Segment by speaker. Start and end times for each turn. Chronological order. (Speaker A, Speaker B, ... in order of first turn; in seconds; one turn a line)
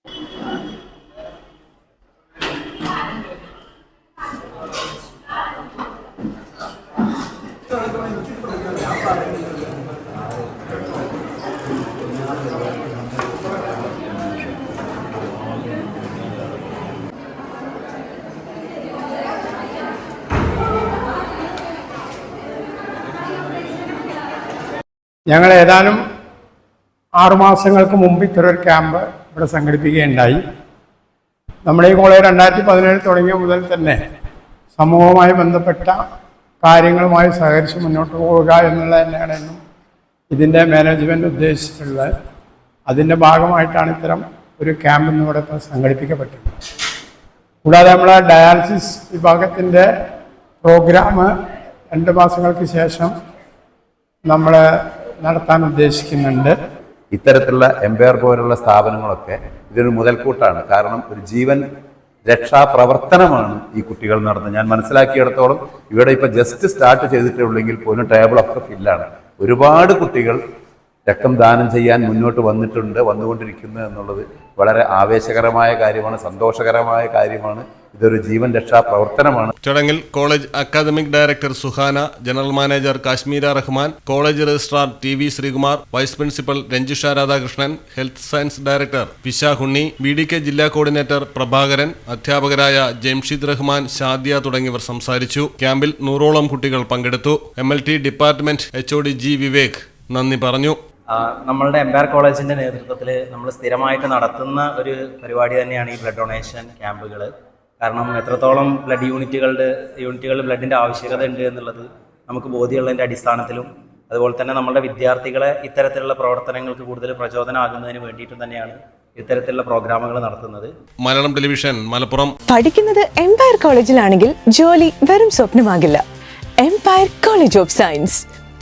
Speaker A: 25.3-26.0
Speaker A: 27.2-30.4
Speaker A: 31.6-34.0
Speaker A: 34.7-36.0
Speaker A: 36.6-39.6
Speaker A: 40.3-42.1
Speaker A: 42.9-46.5
Speaker A: 47.6-49.9
Speaker A: 50.6-51.3
Speaker A: 51.9-53.1
Speaker A: 54.2-54.6
Speaker A: 55.2-56.6
Speaker B: 57.1-61.6
Speaker B: 62.2-70.4
Speaker B: 71.0-79.5
Speaker C: 79.6-100.8
Speaker D: 101.1-120.7
Speaker C: 121.0-122.3
Speaker E: 122.5-126.0
Speaker E: 126.6-128.2